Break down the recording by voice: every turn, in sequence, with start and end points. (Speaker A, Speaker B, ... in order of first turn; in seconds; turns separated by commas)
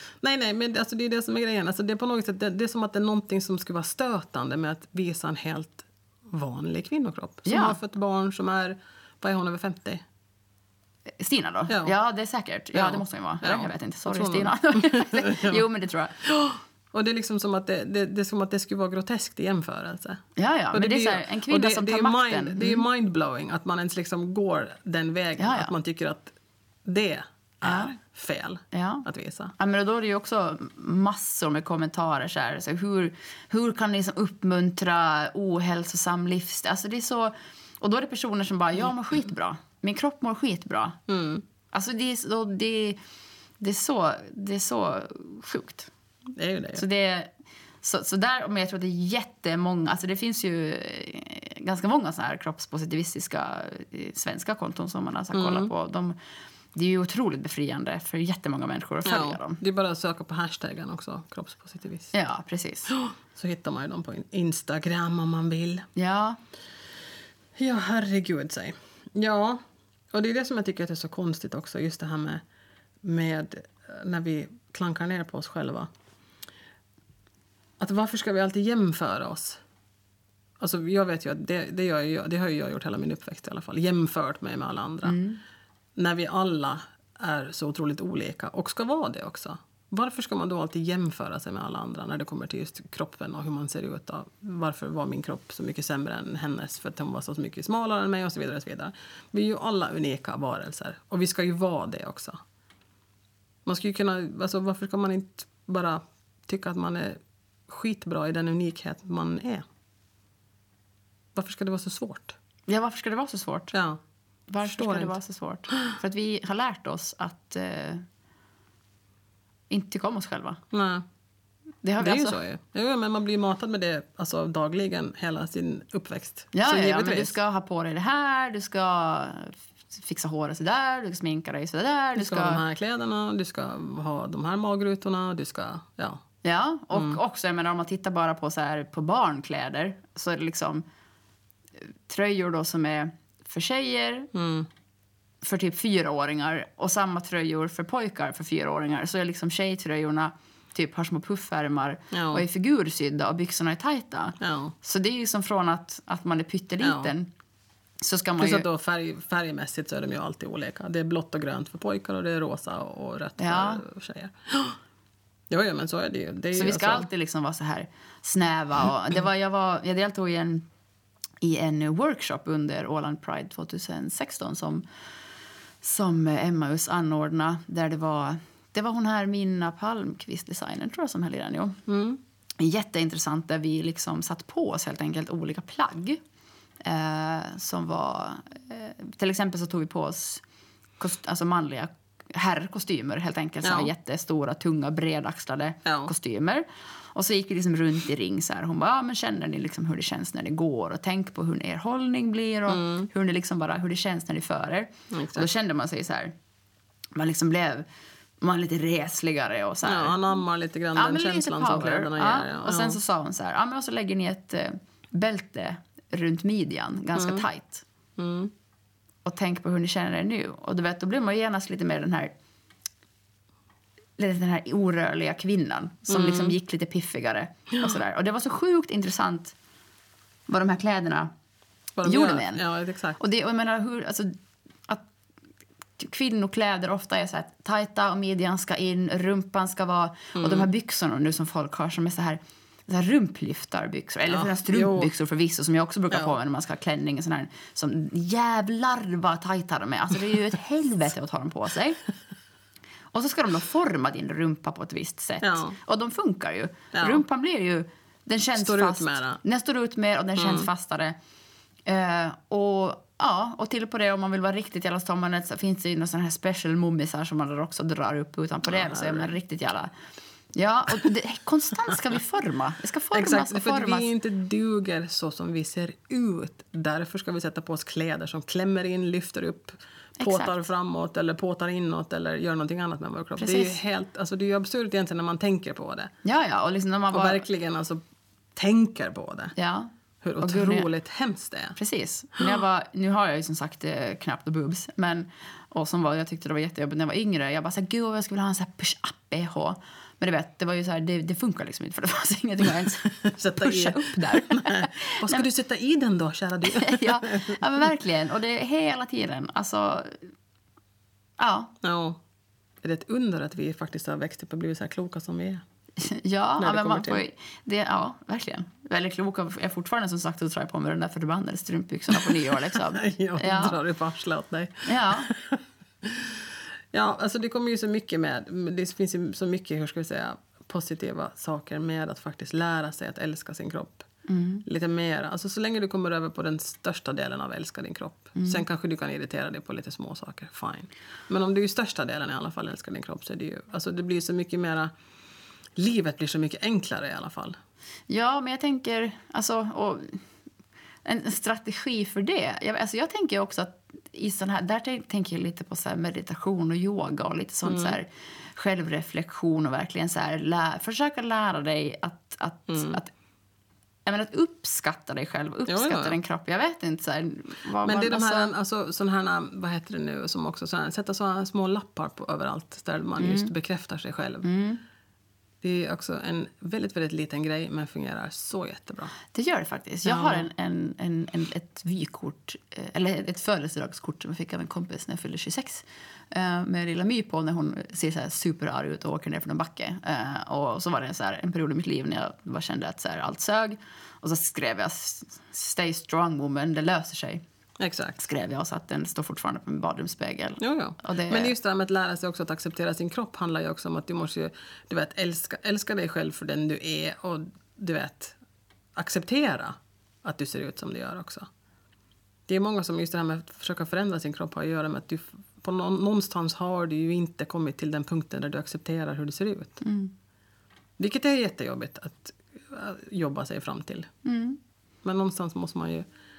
Speaker A: 0.2-10.0, Speaker B: 7.5-7.8, Speaker B: 11.2-16.1, Speaker A: 11.7-11.9, Speaker A: 12.7-15.6, Speaker A: 16.2-20.2, Speaker B: 20.4-22.9, Speaker A: 20.7-29.5, Speaker B: 25.4-25.7, Speaker B: 27.6-27.9, Speaker B: 28.7-41.0, Speaker A: 41.1-41.4, Speaker B: 41.7-43.0, Speaker B: 43.6-45.9, Speaker A: 46.4-46.8, Speaker B: 46.8-47.3, Speaker B: 47.8-56.2, Speaker A: 55.3-55.7, Speaker B: 56.7-59.6, Speaker A: 59.0-62.1, Speaker B: 62.1-62.9, Speaker A: 62.9-65.9, Speaker B: 66.0-66.4, Speaker A: 67.6-72.4, Speaker A: 73.0-75.9, Speaker A: 77.8-79.6, Speaker A: 80.6-85.2, Speaker B: 85.0-85.4, Speaker A: 86.0-102.4, Speaker A: 103.7-109.6, Speaker A: 111.3-112.3, Speaker B: 112.7-113.7, Speaker A: 113.7-114.0, Speaker B: 114.5-118.1, Speaker A: 114.6-115.2, Speaker B: 119.7-120.6, Speaker A: 120.7-121.0, Speaker B: 121.8-122.4, Speaker A: 122.0-127.4, Speaker B: 126.5-132.6, Speaker A: 132.2-136.2, Speaker B: 136.4-140.8, Speaker B: 141.8-144.3, Speaker A: 144.3-144.7, Speaker B: 145.4-157.3, Speaker A: 152.1-152.4, Speaker A: 154.4-154.7, Speaker A: 156.8-157.1, Speaker B: 158.0-158.7, Speaker A: 158.4-164.8, Speaker B: 163.4-163.8, Speaker A: 165.5-167.1, Speaker B: 166.6-170.7, Speaker B: 171.4-174.8, Speaker B: 175.8-181.8, Speaker A: 181.9-182.2, Speaker B: 182.6-186.2, Speaker B: 186.8-190.4, Speaker B: 191.0-206.3, Speaker A: 193.6-193.9, Speaker A: 195.9-196.1, Speaker A: 202.7-203.1, Speaker A: 205.1-205.5, Speaker B: 207.2-207.9, Speaker B: 208.4-210.2, Speaker A: 209.8-213.0, Speaker B: 210.9-217.8, Speaker A: 217.2-217.5, Speaker A: 218.2-218.5, Speaker B: 219.2-222.3, Speaker B: 224.2-229.6, Speaker A: 226.1-226.6, Speaker B: 230.5-231.3, Speaker A: 232.0-233.2, Speaker B: 232.0-232.6, Speaker B: 233.2-234.4, Speaker B: 236.0-252.0, Speaker A: 240.3-240.7, Speaker A: 244.3-245.1, Speaker B: 253.1-261.2, Speaker A: 255.4-255.8, Speaker A: 256.9-257.2, Speaker A: 258.6-259.4, Speaker A: 260.4-260.7, Speaker B: 261.9-269.9, Speaker A: 268.7-269.3, Speaker B: 270.5-274.1, Speaker A: 273.1-286.1, Speaker B: 280.2-280.7, Speaker B: 283.4-283.8, Speaker B: 286.2-287.5, Speaker A: 287.1-288.0, Speaker A: 288.6-289.6, Speaker B: 289.6-290.9, Speaker A: 290.2-291.8, Speaker B: 291.8-305.4, Speaker A: 303.1-307.9, Speaker B: 306.6-310.3, Speaker B: 311.4-311.7, Speaker A: 311.8-312.2, Speaker A: 312.8-315.6, Speaker B: 316.0-323.8, Speaker A: 316.6-317.2, Speaker A: 322.7-334.1, Speaker B: 324.9-325.3, Speaker B: 334.3-334.6, Speaker A: 334.6-344.9, Speaker B: 338.4-338.6, Speaker A: 345.8-347.6, Speaker B: 348.1-350.2, Speaker B: 351.1-363.1, Speaker A: 357.7-358.0, Speaker A: 362.7-363.0, Speaker B: 364.1-368.5, Speaker A: 365.7-366.2, Speaker A: 367.8-374.5, Speaker B: 373.2-373.5, Speaker B: 374.4-374.8, Speaker A: 375.6-379.1, Speaker B: 379.3-397.4, Speaker A: 380.1-380.5, Speaker A: 397.8-398.2, Speaker B: 398.2-401.5, Speaker A: 400.6-408.4, Speaker A: 408.9-411.5, Speaker A: 412.5-419.8, Speaker B: 419.8-420.1, Speaker A: 421.0-424.1, Speaker B: 424.2-424.6, Speaker A: 425.0-426.1